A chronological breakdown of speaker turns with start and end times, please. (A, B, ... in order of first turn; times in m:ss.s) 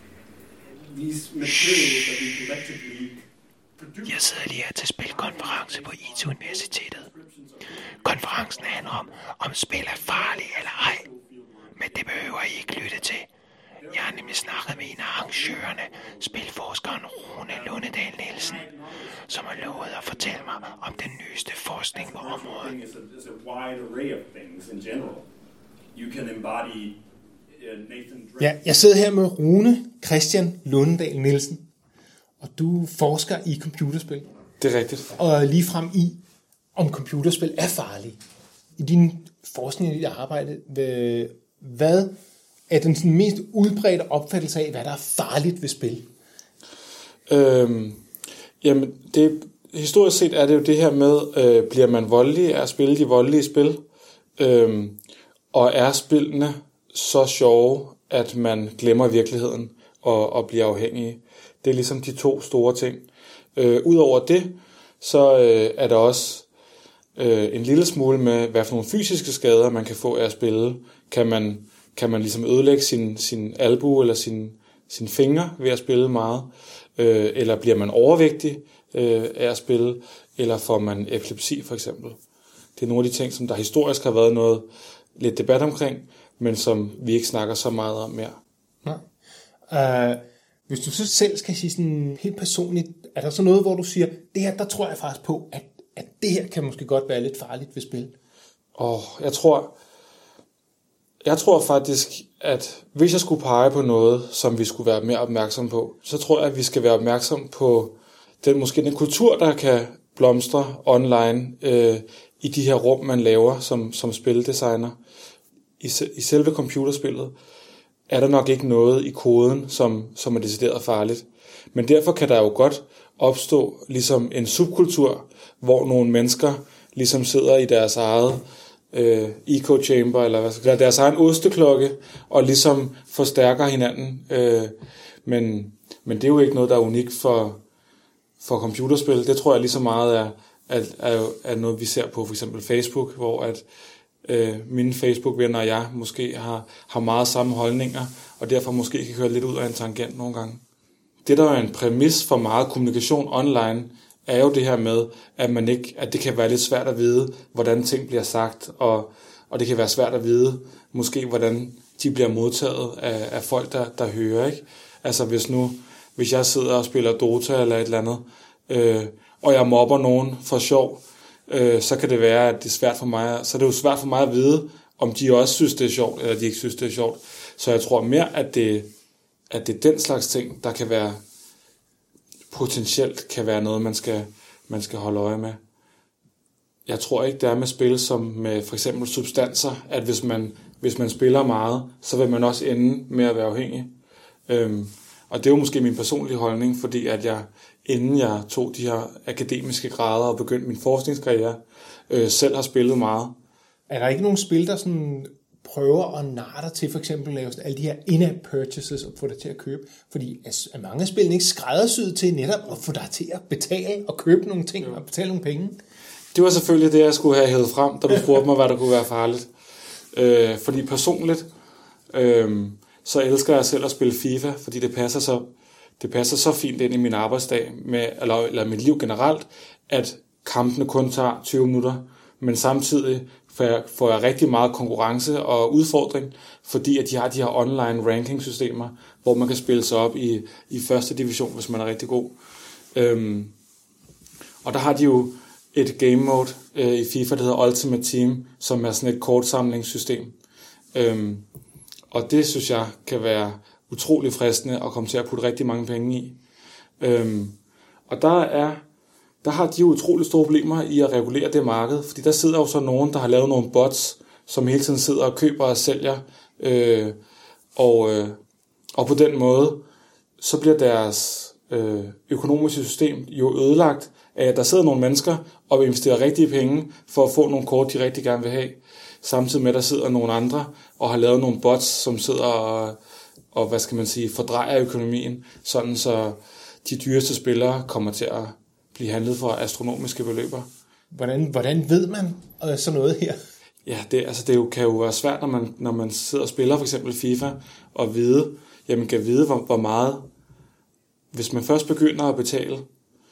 0:00.6-0:03.2 A
0:03.8-0:12.9 A
0:04.0-0:07.0 B
0:08.0-0:11.0 B
0:11.8-0:13.3 B
0:13.8-0:16.5 A
0:13.9-0:18.6 B
0:17.4-0:25.3 A
0:19.3-0:22.7 B
0:25.9-0:27.0 A
0:27.5-0:28.6 A
0:28.4-0:31.7 C
0:32.4-0:34.3 C
0:34.6-0:35.2 D
0:35.2-0:36.2 C
0:36.8-0:38.2 C
0:38.8-0:42.1 C
0:42.7-0:46.1 C
0:47.3-0:48.0 D
0:48.6-0:53.8 D
0:54.4-0:55.0 D
0:55.5-1:06.5 D
1:07.2-1:22.2 D
1:22.8-1:28.4 D
1:29.7-1:38.2 C
1:38.8-1:39.8 D
1:41.2-1:55.0 D
1:55.8-1:57.3 D
1:58.1-2:14.7 D
2:15.2-2:17.6 D
2:18.4-2:23.6 D
2:24.2-2:30.6 D
2:31.2-2:58.9 D
2:59.5-3:01.2 D
3:02.5-3:05.6 D
3:06.8-3:13.9 D
3:14.5-3:23.4 D
3:23.9-3:35.8 C
3:36.3-3:39.5 D
3:40.1-3:41.5 D
3:42.1-4:02.4 D
4:02.9-4:03.5 D
4:04.6-4:10.4 D
4:10.9-4:11.4 D
4:12.1-4:16.4 D
4:17.0-4:17.6 D
4:18.1-4:18.8 D
4:19.4-4:27.2 D
4:27.8-4:28.4 D
4:28.9-4:29.8 D
4:30.4-4:43.0 D
4:43.5-4:50.7 D
4:51.1-4:53.4 C
4:53.8-5:00.3 D
5:01.3-5:02.8 D